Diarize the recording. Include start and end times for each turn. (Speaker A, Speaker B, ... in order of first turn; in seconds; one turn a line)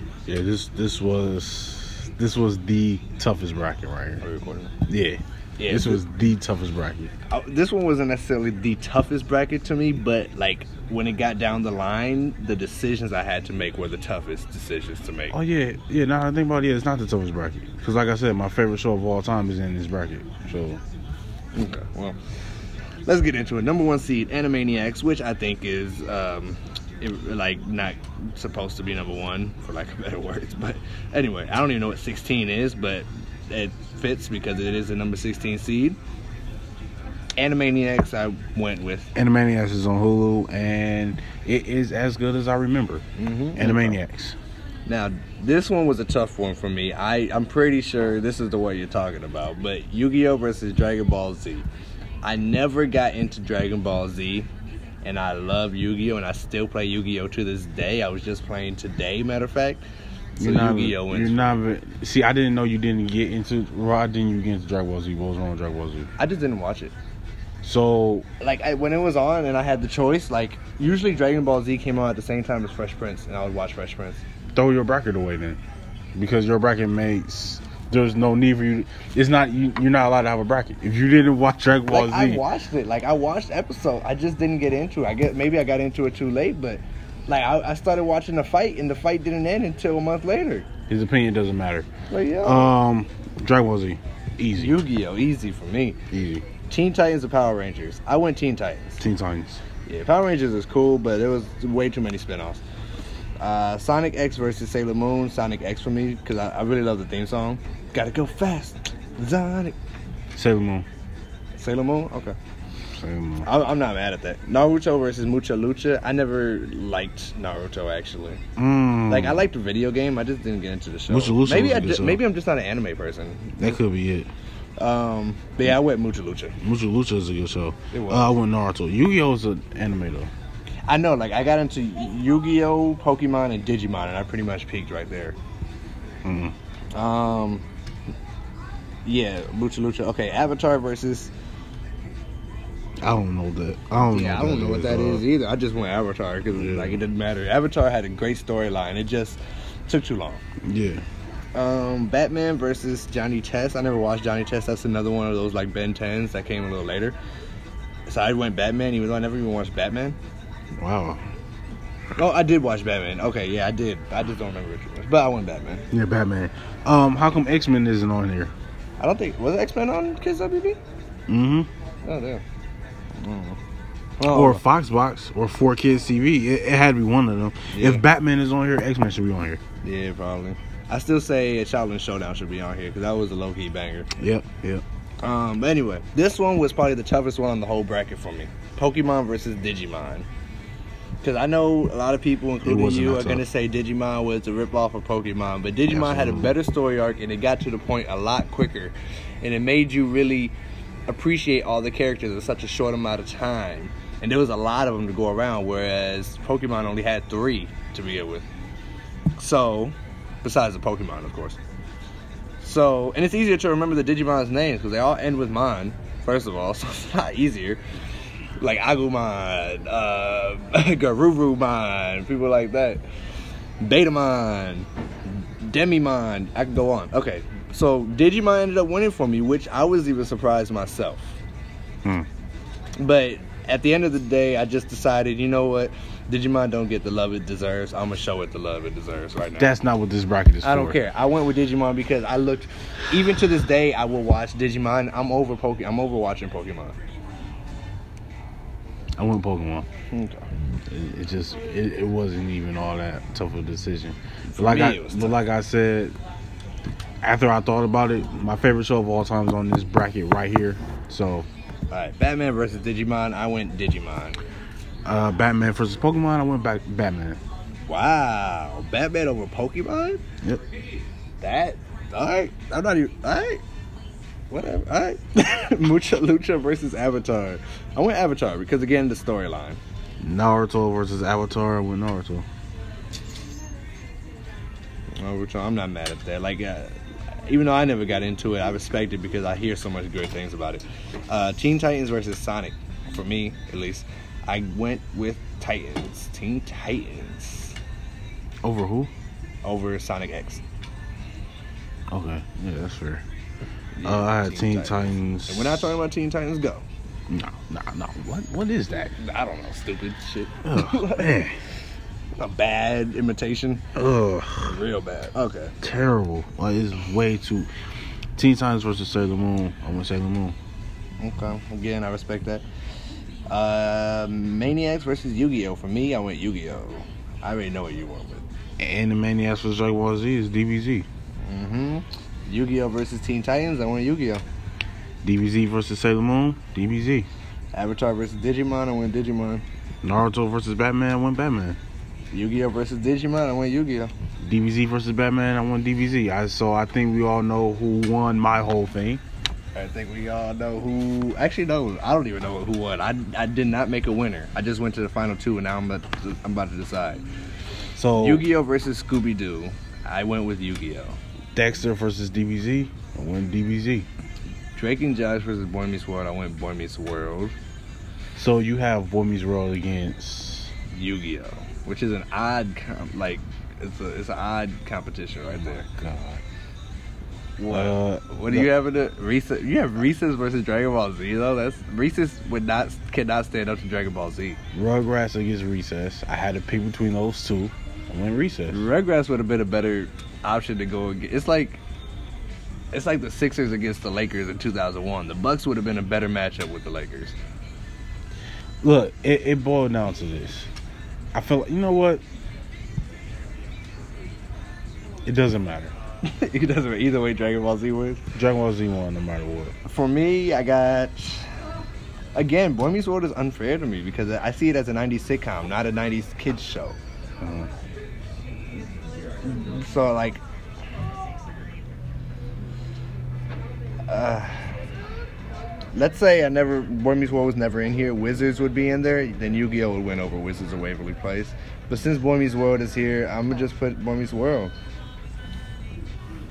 Speaker A: 0.3-4.2
Speaker B: 4.2-4.7
Speaker A: 4.9-7.1
Speaker B: 5.6-6.0
Speaker B: 7.3-15.4
Speaker A: 15.3-20.8
Speaker B: 21.6-22.2
Speaker B: 23.1-36.0
Speaker B: 37.4-39.1
Speaker A: 39.1-43.0
Speaker B: 43.2-44.0
Speaker A: 43.6-44.4
Speaker B: 44.9-51.7
Speaker B: 52.2-54.5
Speaker B: 55.0-59.8
Speaker B: 60.4-61.6
Speaker A: 60.4-66.1
Speaker B: 66.2-66.9
Speaker A: 67.6-68.3
Speaker B: 68.4-74.2
Speaker A: 74.5-75.6
Speaker A: 76.2-82.4
Speaker B: 81.9-90.7
Speaker A: 90.9-91.9
Speaker B: 92.1-92.8
Speaker A: 92.4-94.8
Speaker B: 94.5-96.0
Speaker A: 96.1-96.5
Speaker B: 96.7-99.0
Speaker A: 99.0-99.6
Speaker B: 99.9-102.6
Speaker B: 103.4-109.8
Speaker A: 110.3-110.9
Speaker B: 111.6-112.4
Speaker A: 113.0-113.5
Speaker B: 113.4-118.4
Speaker A: 118.6-119.5
Speaker B: 119.1-123.8
Speaker A: 121.1-122.2
Speaker A: 123.6-124.3
Speaker B: 124.8-126.6
Speaker A: 126.6-130.3
Speaker B: 127.9-128.3
Speaker B: 130.9-135.4
Speaker A: 136.2-136.5
Speaker B: 136.9-137.7
Speaker B: 139.1-141.3
Speaker A: 143.0-145.3
Speaker B: 144.0-150.4
Speaker A: 146.5-147.0
Speaker A: 150.7-151.1
Speaker B: 151.6-157.2
Speaker B: 158.1-160.2
Speaker A: 160.8-161.2
Speaker B: 162.2-165.9
Speaker A: 165.9-168.5
Speaker B: 169.0-170.8
Speaker A: 171.3-171.7
Speaker B: 172.0-172.4
Speaker B: 173.2-173.6
Speaker B: 174.2-174.6
Speaker A: 174.3-179.6
Speaker B: 177.7-178.0
Speaker B: 179.8-184.1
Speaker A: 184.2-184.8
Speaker B: 185.2-190.3
Speaker B: 191.2-200.6
Speaker A: 192.6-193.5
Speaker A: 195.9-196.5
Speaker B: 201.1-208.5
Speaker B: 209.4-211.6
Speaker B: 212.6-217.8
Speaker B: 218.6-223.0
Speaker B: 223.8-231.4
Speaker B: 233.0-239.7
Speaker A: 239.6-241.0
Speaker B: 240.6-247.0
Speaker A: 249.2-249.9
Speaker B: 250.1-250.5
Speaker A: 250.9-256.2
Speaker B: 254.5-255.4
Speaker A: 257.2-261.5
Speaker B: 261.9-264.4
Speaker A: 265.1-267.4
Speaker B: 267.9-270.2
Speaker B: 271.4-273.6
Speaker B: 274.5-279.8
Speaker A: 280.2-282.4
Speaker B: 285.2-297.8
Speaker A: 298.6-299.1
Speaker B: 299.6-300.6
Speaker A: 302.1-303.2
Speaker B: 303.9-306.9
Speaker A: 304.1-305.9
Speaker A: 307.3-309.1
Speaker B: 309.2-311.5
Speaker A: 310.6-311.6
Speaker B: 312.4-313.9
Speaker A: 313.9-314.8
Speaker B: 314.6-315.7
Speaker A: 315.8-317.7
Speaker A: 318.4-320.6
Speaker B: 321.2-322.6
Speaker B: 323.5-328.5
Speaker A: 328.8-331.1
Speaker B: 331.4-334.4
Speaker A: 335.2-337.3
Speaker B: 337.7-339.6
Speaker A: 340.0-341.8
Speaker B: 342.3-344.1
Speaker A: 344.4-349.2
Speaker B: 349.8-357.2
Speaker A: 358.0-358.5
Speaker B: 358.1-361.2
Speaker A: 361.6-364.1
Speaker B: 364.8-367.6
Speaker A: 368.4-370.7
Speaker B: 370.9-375.9
Speaker A: 375.8-376.4
Speaker B: 377.6-384.6
Speaker A: 377.7-378.7
Speaker A: 384.7-388.9
Speaker B: 388.7-391.8
Speaker B: 392.9-397.4
Speaker A: 398.8-400.7
Speaker A: 401.3-402.2
Speaker A: 405.3-405.9
Speaker B: 406.2-408.3
Speaker A: 408.4-409.7
Speaker B: 409.9-411.5
Speaker B: 412.4-417.0
Speaker A: 417.4-417.7
Speaker B: 419.4-420.4
Speaker B: 424.1-424.8
Speaker B: 425.9-434.7